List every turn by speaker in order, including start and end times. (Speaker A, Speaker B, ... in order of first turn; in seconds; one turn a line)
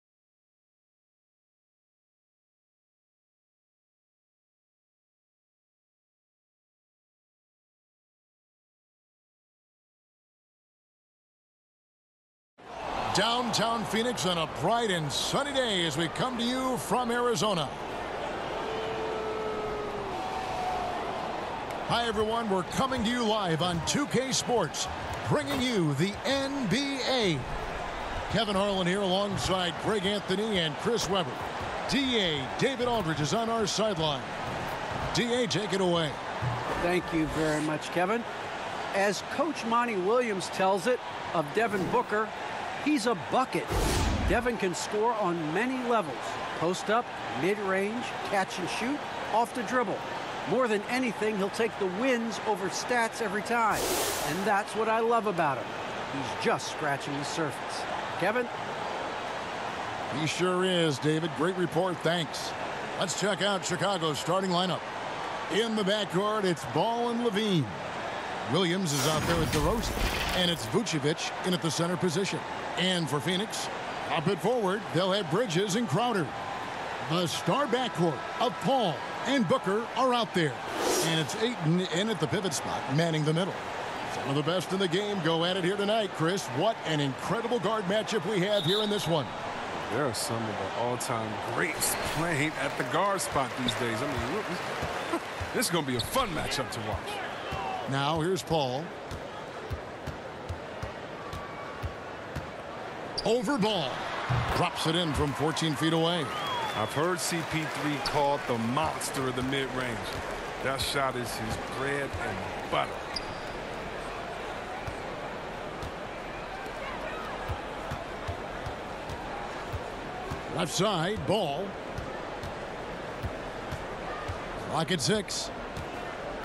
Speaker A: 13.1-17.9
Speaker A: 21.9-27.5
Speaker A: 28.3-34.4
Speaker A: 35.1-36.2
Speaker B: 36.8-38.3
Speaker B: 38.9-43.7
Speaker B: 44.2-58.5
Speaker A: 60.1-64.9
Speaker A: 65.5-67.9
Speaker A: 68.5-76.4
Speaker A: 77.0-89.3
Speaker C: 89.8-94.6
Speaker C: 95.5-97.2
Speaker A: 97.9-98.9
Speaker A: 103.2-106.4
Speaker C: 106.7-113.0
Speaker A: 120.5-121.8
Speaker A: 124.6-125.5